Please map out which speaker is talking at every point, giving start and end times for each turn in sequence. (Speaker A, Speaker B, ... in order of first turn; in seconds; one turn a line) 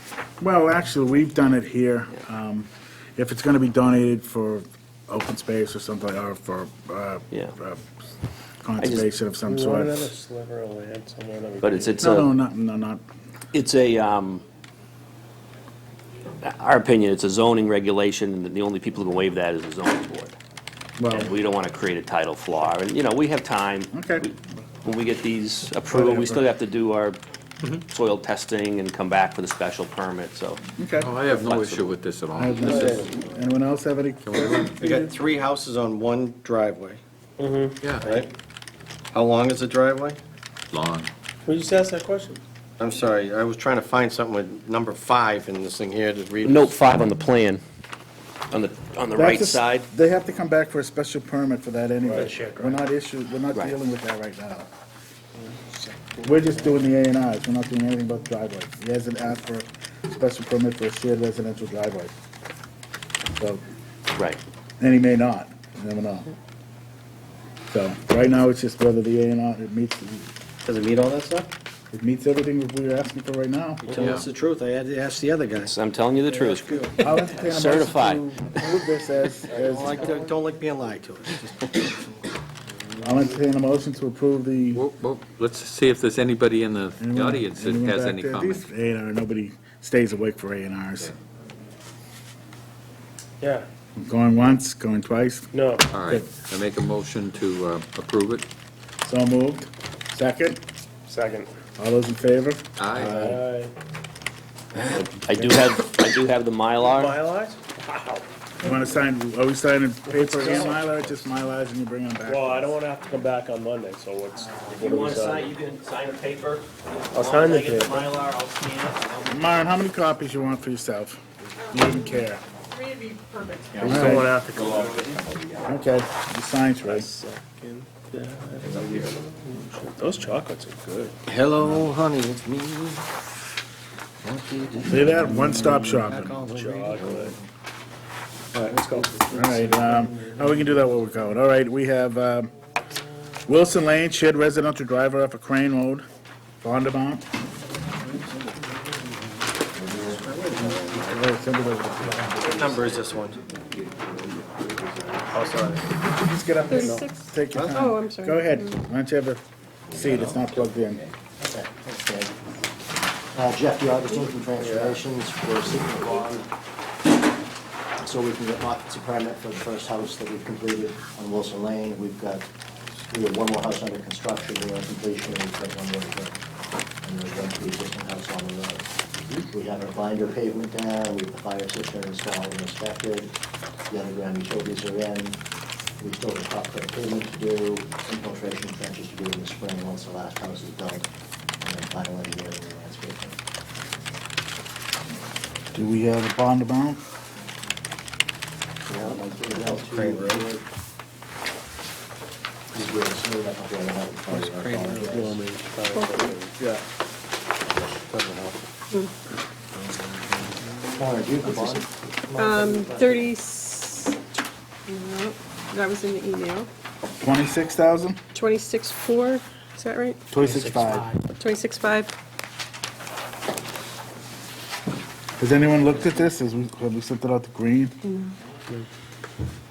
Speaker A: 0.4-7.9
Speaker A: 8.6-10.1
Speaker B: 8.8-9.1
Speaker C: 9.4-12.0
Speaker B: 11.6-12.3
Speaker A: 12.0-13.0
Speaker B: 13.5-14.4
Speaker B: 16.4-20.4
Speaker A: 21.0-21.3
Speaker B: 21.1-27.2
Speaker A: 23.9-24.2
Speaker A: 25.9-26.5
Speaker B: 27.7-30.6
Speaker A: 30.8-31.1
Speaker D: 31.0-33.1
Speaker B: 31.3-31.9
Speaker A: 32.3-34.8
Speaker C: 32.6-33.1
Speaker D: 34.2-34.7
Speaker E: 34.8-37.0
Speaker C: 34.8-35.1
Speaker C: 37.4-37.9
Speaker E: 38.0-38.3
Speaker E: 39.1-40.2
Speaker D: 40.7-41.1
Speaker C: 41.5-42.4
Speaker E: 42.8-46.8
Speaker B: 46.4-47.6
Speaker B: 48.5-49.9
Speaker A: 49.1-54.7
Speaker C: 52.0-52.8
Speaker B: 53.5-53.8
Speaker A: 56.2-62.1
Speaker A: 63.4-63.6
Speaker A: 64.8-66.3
Speaker A: 67.7-70.3
Speaker E: 70.7-71.5
Speaker A: 71.9-73.9
Speaker E: 73.8-75.7
Speaker D: 73.9-74.3
Speaker B: 75.6-78.3
Speaker E: 76.4-76.9
Speaker A: 77.0-80.0
Speaker E: 79.5-82.0
Speaker F: 79.8-80.5
Speaker F: 81.0-81.4
Speaker A: 83.0-84.8
Speaker D: 84.7-88.6
Speaker A: 87.0-91.1
Speaker C: 93.4-93.7
Speaker A: 94.0-95.5
Speaker C: 95.5-95.9
Speaker D: 95.9-98.4
Speaker A: 99.0-100.6
Speaker C: 101.1-101.5
Speaker A: 101.8-103.4
Speaker D: 102.8-103.3
Speaker C: 102.9-103.7
Speaker B: 105.2-107.2
Speaker C: 106.8-108.3
Speaker A: 108.6-112.8
Speaker C: 110.1-111.0
Speaker C: 112.2-115.5
Speaker B: 114.3-119.7
Speaker C: 117.1-118.1
Speaker A: 119.2-122.4
Speaker G: 122.7-123.9
Speaker C: 123.8-125.0
Speaker A: 123.8-124.3
Speaker D: 124.8-125.5
Speaker A: 125.7-127.1
Speaker C: 126.8-131.2
Speaker E: 131.3-132.6
Speaker F: 131.7-133.0
Speaker F: 134.2-136.0
Speaker E: 134.8-137.3
Speaker A: 134.9-136.3
Speaker C: 136.4-137.4
Speaker C: 138.5-140.9
Speaker A: 139.3-142.5
Speaker A: 143.5-146.0
Speaker A: 146.6-147.2
Speaker E: 150.1-151.0
Speaker A: 150.6-153.0
Speaker E: 152.5-153.4
Speaker C: 155.3-155.8
Speaker E: 155.4-155.8
Speaker A: 156.1-159.4
Speaker G: 156.7-158.7
Speaker C: 156.7-157.0
Speaker E: 157.5-157.8
Speaker A: 159.9-161.1
Speaker D: 160.0-160.4
Speaker F: 161.4-162.4
Speaker F: 163.3-166.5
Speaker C: 164.6-165.0
Speaker F: 168.0-172.4
Speaker F: 173.0-176.4
Speaker F: 177.0-183.3
Speaker F: 183.9-185.4
Speaker F: 186.0-191.1
Speaker F: 191.6-193.3
Speaker A: 195.7-197.0
Speaker F: 198.9-200.6
Speaker E: 198.9-200.5
Speaker F: 202.7-205.4
Speaker E: 204.3-205.2
Speaker C: 204.9-206.5
Speaker G: 205.9-206.3
Speaker E: 208.1-208.7
Speaker E: 209.8-210.4
Speaker F: 210.9-213.3
Speaker G: 212.3-214.3
Speaker G: 214.9-216.7
Speaker A: 217.2-218.2
Speaker G: 218.3-220.2
Speaker A: 220.3-221.1
Speaker C: 220.4-221.2
Speaker G: 221.4-222.1
Speaker A: 225.4-228.0
Speaker G: 228.0-228.3